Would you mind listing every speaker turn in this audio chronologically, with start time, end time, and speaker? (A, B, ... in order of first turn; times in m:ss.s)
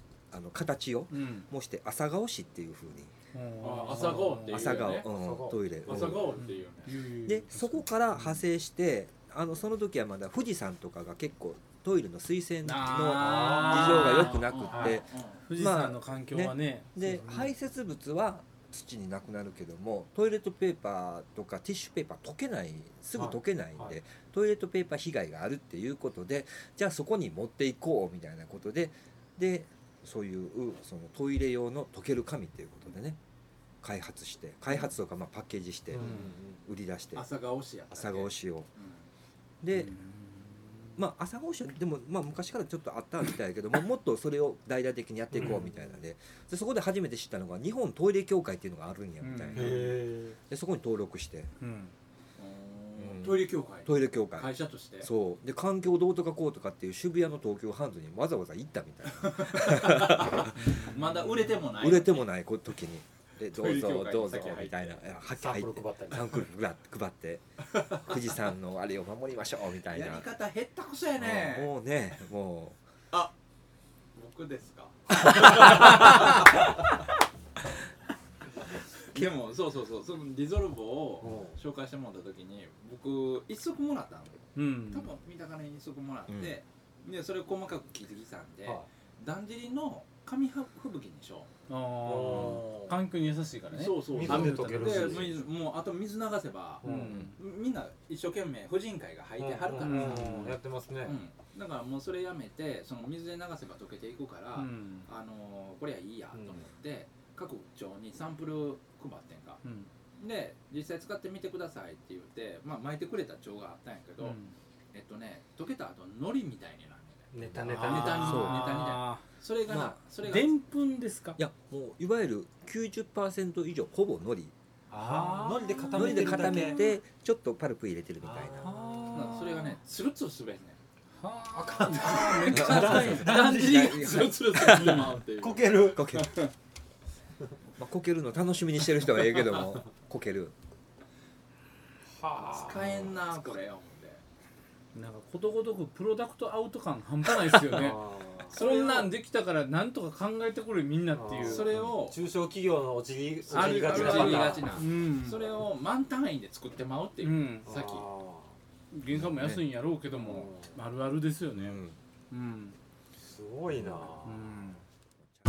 0:00.3-0:03.1 A
0:01.1-0:01.5 B
0:03.3-0:04.7 B
0:03.6-0:05.1 C
0:03.9-0:06.4 D
0:04.4-0:06.3 A
0:05.8-0:06.9 C
0:06.4-0:08.4 B
0:07.2-0:33.2 A
0:12.6-0:14.5 B
0:13.2-0:14.0 D
0:13.3-0:15.5 C
0:14.7-0:15.0 D
0:15.4-0:17.2 B
0:17.2-0:17.5 D
0:23.2-0:24.0 D
0:33.8-0:37.2 A
0:35.9-0:36.6 D
0:36.0-0:36.3 B
0:37.1-0:39.1 C
0:37.9-0:38.7 A
0:39.6-0:39.9 A
0:39.8-0:40.7 B
0:41.0-0:50.0 A
0:45.3-0:45.8 D
0:49.2-0:50.0 B
0:49.6-0:50.4 D
0:50.5-0:51.5 A
0:51.6-0:51.9 B
0:52.4-0:55.1 C
0:53.0-0:54.5 A
0:55.0-1:00.8 A
0:59.2-1:02.3 C
1:00.6-1:01.1 B
1:01.8-1:10.3 A
1:03.5-1:05.0 C
1:05.4-1:06.5 D
1:09.9-1:11.7 C
1:11.2-1:12.8 A
1:14.2-1:16.8 C
1:15.6-1:16.0 A
1:19.1-1:31.5 C
1:21.2-1:21.6 D
1:24.6-1:25.1 B
1:26.3-1:26.6 A
1:31.7-1:35.3 B
1:32.0-1:33.0 D
1:33.7-1:40.5 C
1:34.1-1:35.4 D
1:36.8-1:37.2 D
1:36.8-1:37.3 B
1:39.4-1:41.2 D
1:39.8-1:40.6 B
1:41.0-1:49.6 C
1:44.6-1:45.1 B
1:46.4-1:46.6 D
1:49.6-1:49.9 B
1:50.2-1:54.4 C
1:54.2-1:54.5 B
1:54.9-2:00.5 C
1:57.3-1:58.5 D
1:57.7-1:59.3 B
1:58.2-1:58.6 A
1:59.7-2:00.0 A
2:00.2-2:01.4 B
2:01.4-2:04.5 A
2:04.9-2:07.0 D
2:05.0-2:06.9 B
2:06.0-2:08.7 A
2:08.2-2:09.7 D
2:08.6-2:09.4 B
2:09.1-2:10.8 C
2:11.2-2:15.1 B
2:11.6-2:16.1 D
2:12.0-2:16.5 C
2:12.6-2:13.2 A
2:13.8-2:15.1 A
2:15.9-2:16.3 A
2:17.8-2:20.5 A
2:22.2-2:23.1 D
2:22.4-2:24.2 C
2:25.0-2:31.7 B
2:27.7-2:28.6 D
2:28.5-2:29.1 C
2:31.1-2:34.8 D
2:31.4-2:32.2 C
2:33.5-2:38.1 C
2:33.5-2:35.5 B
2:37.2-2:37.7 B
2:37.7-2:38.6 D
2:38.9-2:42.8 B
2:39.1-2:39.6 A
2:40.2-2:40.8 D
2:41.6-2:42.0 A
2:43.2-2:44.5 D
2:43.7-2:44.1 A
2:44.2-2:44.8 B